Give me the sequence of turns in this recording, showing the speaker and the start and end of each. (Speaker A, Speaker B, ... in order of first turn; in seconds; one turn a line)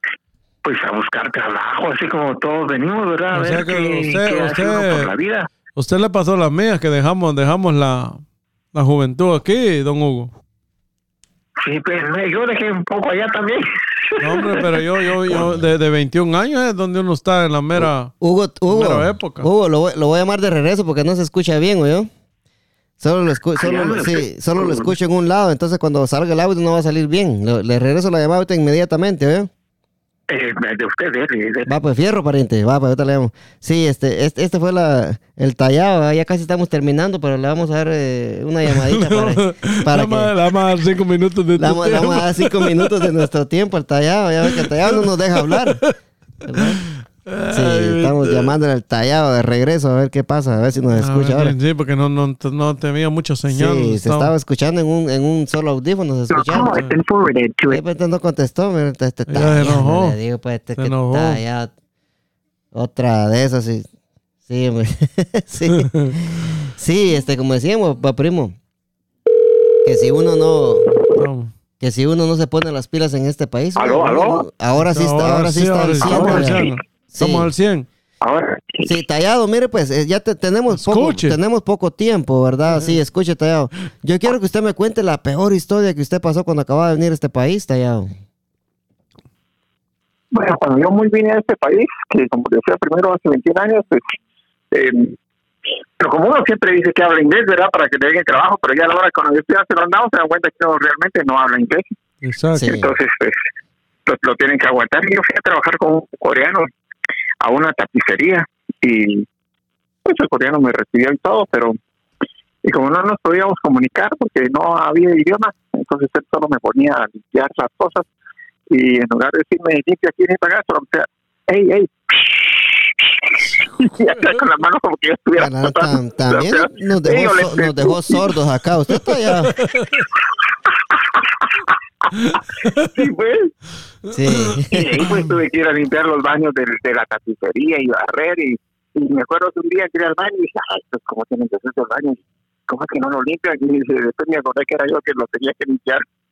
Speaker A: 0.6-5.5
Speaker B: 3.3-5.1
Speaker B: 5.7-8.2
Speaker B: 8.7-10.3
Speaker A: 11.6-14.6
Speaker B: 14.2-18.1
Speaker C: 17.8-22.1
Speaker B: 18.7-19.5
Speaker C: 23.0-29.5
Speaker A: 23.6-24.9
Speaker A: 30.3-31.7
Speaker C: 31.7-40.3
Speaker B: 38.7-43.2
Speaker C: 41.6-45.8
Speaker B: 44.5-45.9
Speaker C: 46.4-46.8
Speaker B: 46.5-48.5
Speaker C: 47.5-51.5
Speaker B: 50.9-54.3
Speaker C: 53.5-56.7
Speaker A: 56.3-57.8
Speaker C: 57.7-61.7
Speaker B: 59.3-60.1
Speaker B: 60.8-61.4
Speaker C: 62.7-63.9
Speaker C: 64.5-68.5
Speaker B: 65.7-66.2
Speaker C: 69.8-70.9
Speaker B: 71.1-71.5
Speaker C: 71.8-77.5
Speaker A: 73.8-74.4
Speaker B: 74.8-77.9
Speaker A: 76.0-76.8
Speaker A: 78.2-78.9
Speaker C: 78.8-88.1
Speaker B: 80.7-81.4
Speaker A: 90.3-94.1
Speaker A: 94.7-95.2
Speaker A: 96.0-101.9
Speaker B: 102.2-102.7
Speaker C: 102.5-102.9
Speaker A: 102.6-103.4
Speaker A: 104.0-106.7
Speaker A: 107.4-109.3
Speaker A: 110.0-111.8
Speaker A: 112.6-118.0
Speaker A: 118.7-128.3
Speaker C: 125.4-129.5
Speaker B: 129.1-130.1
Speaker A: 130.7-131.5
Speaker A: 132.0-133.5
Speaker B: 132.1-132.9
Speaker B: 134.1-134.6
Speaker C: 134.1-135.0
Speaker A: 134.7-146.0